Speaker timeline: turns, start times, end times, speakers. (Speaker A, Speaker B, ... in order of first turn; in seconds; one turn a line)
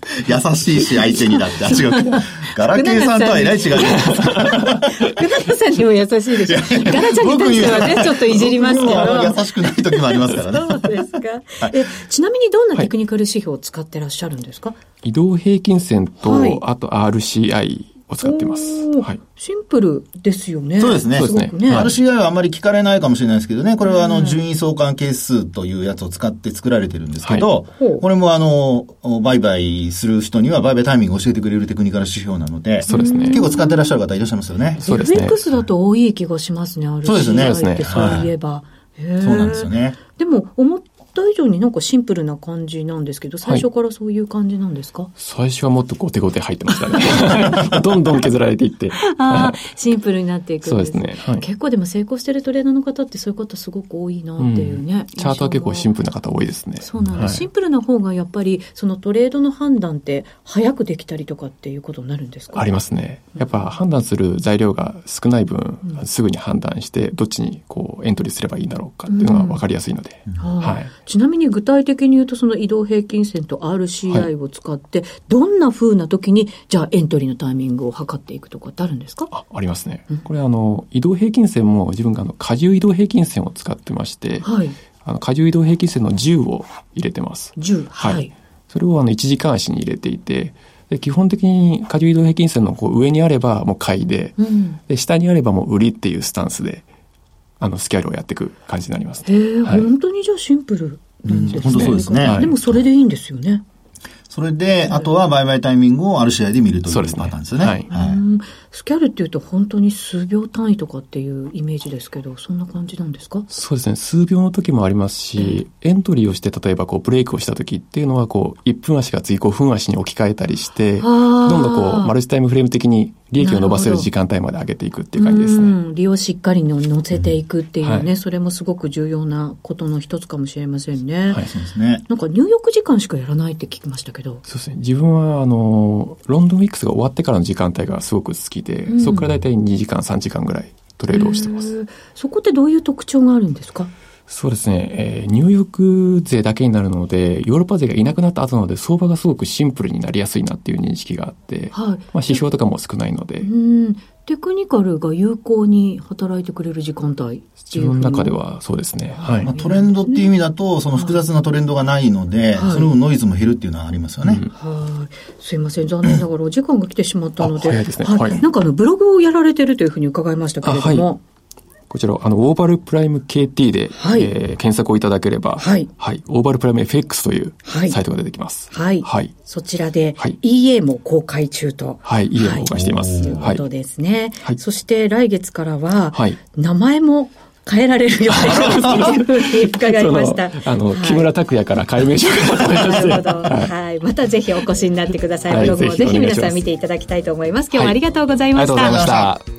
Speaker A: 0.2-4.9
Speaker B: 1.3-14.8
Speaker A: 6.4-10.9
Speaker C: 15.0-19.2
Speaker B: 16.2-16.6
Speaker B: 18.2-21.9
Speaker A: 20.8-34.8
Speaker C: 21.1-22.0
Speaker B: 23.8-24.4
Speaker C: 27.2-27.5
Speaker B: 27.7-28.0
Speaker B: 32.9-34.0
Speaker C: 32.9-33.4
Speaker C: 34.8-35.4
Speaker B: 34.8-45.1
Speaker A: 37.0-38.3
Speaker C: 37.2-38.2
Speaker A: 39.2-40.0
Speaker C: 45.2-49.7
Speaker B: 46.7-47.4
Speaker B: 49.0-55.9
Speaker C: 50.6-51.4
Speaker C: 54.4-57.4
Speaker B: 56.8-62.6
Speaker C: 62.5-70.9
Speaker B: 63.4-63.7
Speaker B: 69.1-69.6
Speaker B: 70.3-79.3
Speaker C: 79.3-84.5
Speaker B: 84.4-84.8
Speaker C: 85.0-96.8
Speaker B: 87.6-88.3
Speaker B: 94.4-94.8
Speaker C: 97.6-99.9
Speaker B: 99.2-103.6
Speaker A: 101.2-102.8
Speaker C: 101.7-102.5
Speaker A: 104.3-108.2
Speaker C: 106.9-107.8
Speaker B: 107.9-113.4
Speaker C: 113.5-125.8
Speaker B: 115.3-115.6
Speaker B: 121.0-122.1
Speaker B: 123.4-124.1
Speaker B: 125.2-131.4
Speaker C: 127.8-128.1
Speaker A: 131.4-132.0
Speaker B: 132.1-134.4
Speaker C: 134.4-141.7
Speaker B: 138.9-139.3
Speaker B: 141.1-143.9
Speaker C: 144.3-153.5
Speaker B: 151.7-152.4
Speaker B: 153.4-158.4
Speaker C: 157.6-159.5
Speaker B: 159.1-160.3
Speaker A: 159.4-164.4
Speaker B: 160.9-161.2
Speaker B: 162.5-162.9
Speaker C: 164.2-164.5
Speaker B: 164.5-171.2
Speaker C: 167.4-168.4
Speaker C: 170.6-171.1
Speaker C: 171.9-179.3
Speaker B: 174.0-174.3
Speaker B: 175.6-175.9
Speaker B: 177.6-178.0
Speaker B: 178.7-191.3
Speaker C: 182.0-183.6
Speaker A: 182.7-183.4
Speaker C: 186.1-186.4
Speaker C: 188.3-193.7
Speaker B: 192.2-199.1
Speaker C: 195.5-196.6
Speaker C: 198.5-199.4
Speaker A: 198.8-199.3